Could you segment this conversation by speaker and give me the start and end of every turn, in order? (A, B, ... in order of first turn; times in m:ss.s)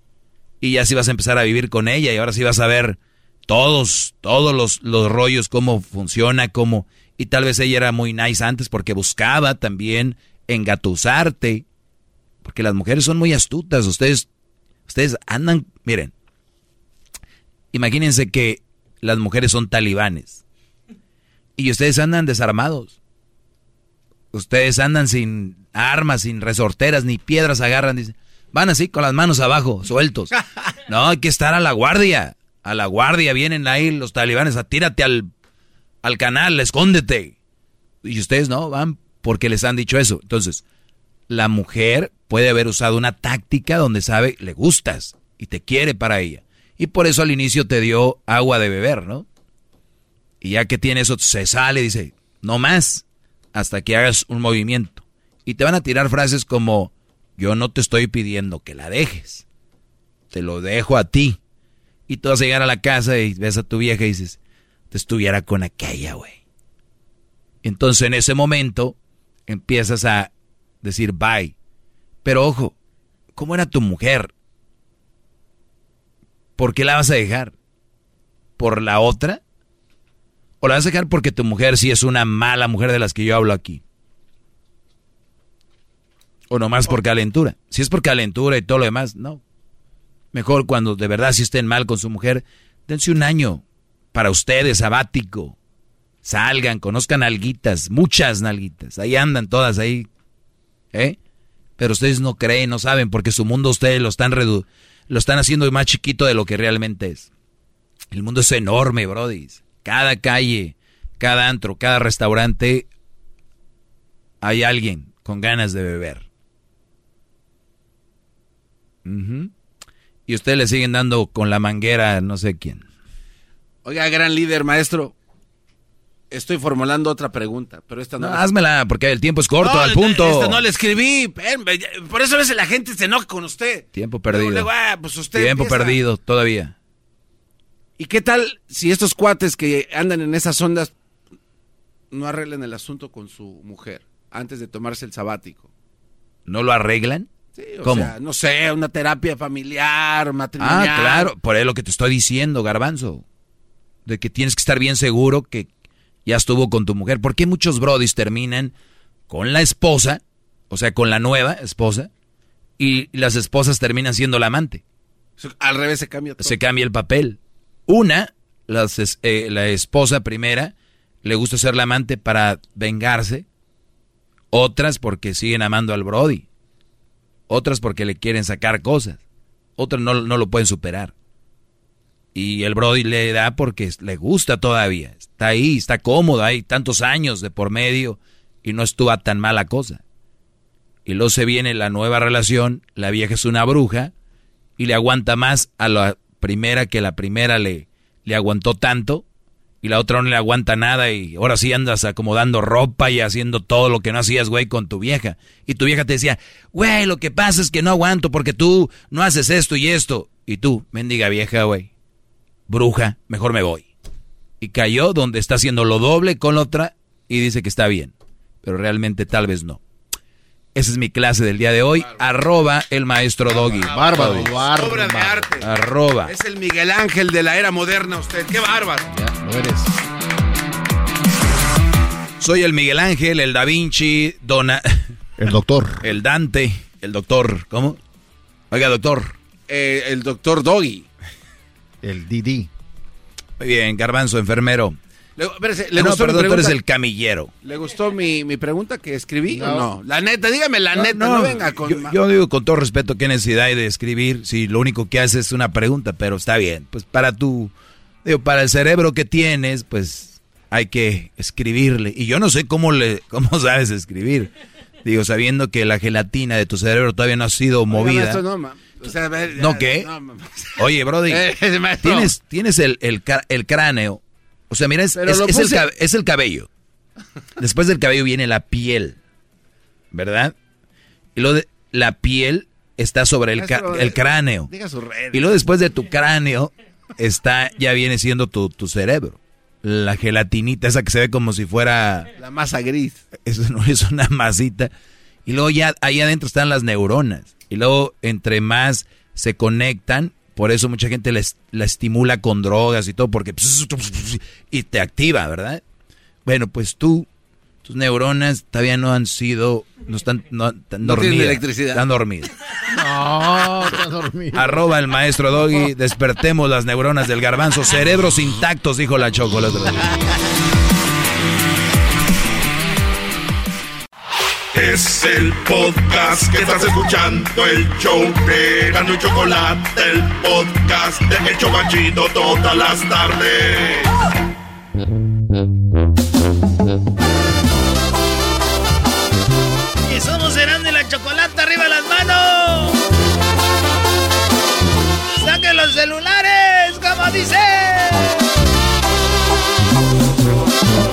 0:00.6-0:11.6 A
0:12.4-0:14.3 A
0:14.9-0:16.1 A
0:17.7-0:20.4 A
0:21.6-0:23.0 A
0:24.3-0:30.3 A
0:30.9-0:35.3 A
0:36.0-0:37.4 A
0:38.0-0:40.6 A
0:41.3-0:49.3 A
0:50.4-0:59.4 A
1:00.3-1:01.4 A
1:02.1-1:04.4 A
1:04.9-1:06.4 A
1:07.6-1:09.0 A
1:09.5-1:11.5 A
1:12.2-1:12.8 A
1:13.4-1:14.3 A
1:16.6-1:17.5 A
1:18.6-1:19.4 A
1:20.6-1:23.8 A
1:26.5-1:29.4 A
1:30.3-1:35.6 A
1:36.2-1:40.1 A
1:41.8-1:47.3 A
1:48.1-1:52.9 A
1:54.4-1:56.2 A
1:59.0-1:59.5 A
2:00.3-2:02.8 A
2:03.8-2:05.1 B
2:06.3-2:08.5 B
2:08.2-2:10.6 A
2:09.6-2:16.0 B
2:14.0-2:14.7 A
2:15.3-2:16.7 A
2:18.0-2:20.9 B
2:22.1-2:25.7 B
2:26.5-2:27.3 A
2:27.6-2:31.3 B
2:27.8-2:28.1 A
2:30.6-2:33.2 A
2:34.0-2:35.7 A
2:36.2-2:38.7 A
2:39.3-2:42.1 A
2:42.8-2:44.8 A
2:45.4-2:46.6 B
2:46.4-2:50.7 A
2:51.2-2:53.4 A
2:54.5-2:56.4 A
2:57.5-2:59.2 A
2:59.8-3:01.1 A
3:02.3-3:10.0 A
3:11.1-3:14.1 A
3:14.8-3:19.2 A
3:19.8-3:31.9 A
3:32.7-3:33.9 A
3:34.6-3:39.8 A
3:40.8-3:44.6 A
3:43.5-3:45.5 C
3:43.9-3:45.7 B
3:45.6-3:46.3 A
3:46.2-3:49.1 B
3:49.1-3:50.0 C
3:52.4-3:55.1 A
3:55.4-3:56.1 C
3:56.0-3:58.0 A
3:58.7-3:59.4 A
3:59.7-4:01.1 B
4:02.0-4:02.7 C
4:03.6-4:05.0 A
4:05.4-4:06.8 B
4:05.9-4:07.5 A
4:07.6-4:12.2 B
4:09.5-4:09.9 C
4:10.9-4:17.7 A
4:18.2-4:24.5 A
4:25.0-4:28.4 A
4:27.9-4:32.3 B
4:29.5-4:30.1 A
4:30.8-4:31.4 A
4:32.0-4:36.7 A
4:35.2-4:35.9 B
4:37.6-4:39.2 A
4:40.1-4:40.5 A
4:41.4-4:44.7 A
4:43.6-4:45.5 B
4:45.3-4:52.3 A
4:52.4-4:53.2 B
4:53.4-4:54.9 A
4:55.5-5:05.8 A
5:06.4-5:07.3 A
5:07.8-5:12.5 A
5:11.0-5:12.0 B
5:12.9-5:14.8 C
5:14.5-5:20.0 A
5:15.6-5:15.9 C
5:24.7-5:34.1 D
5:40.1-5:43.0 E
5:45.4-5:48.3 E